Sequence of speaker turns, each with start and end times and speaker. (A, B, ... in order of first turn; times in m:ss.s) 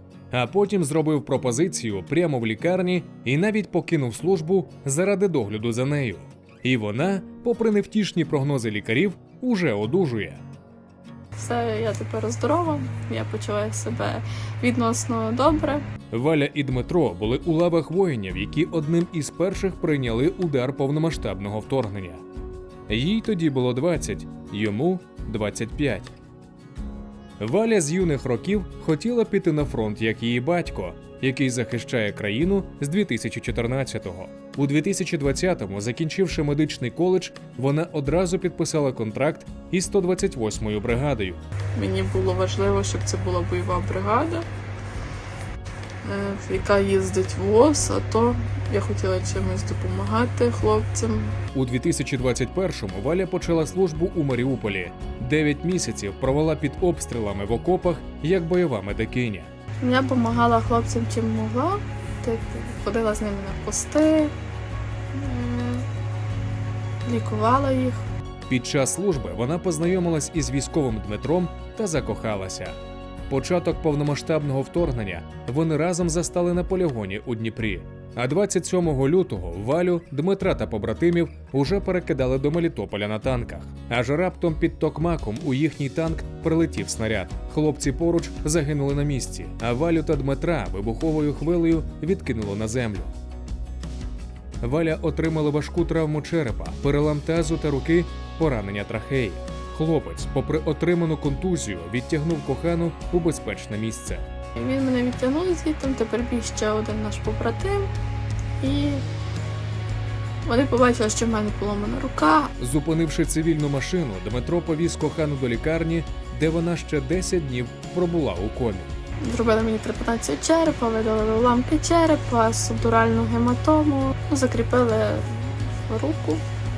0:00.3-0:10.4 A
0:11.4-0:15.9 B
0:16.1-0:22.2 A
0:22.9-0:26.1 A
0:27.4-0:41.4 A
0:41.7-0:44.5 B
0:46.0-0:51.4 B
0:51.5-0:59.5 A
0:59.8-1:04.3 B
1:05.1-1:05.9 B
1:07.0-1:08.0 B
1:08.5-1:12.8 A
1:13.3-1:33.1 A
1:34.6-1:44.3 A
1:44.6-1:47.9 B
1:48.6-1:49.1 B
1:50.4-1:52.5 B
1:52.6-1:58.9 A
1:59.2-2:06.4 B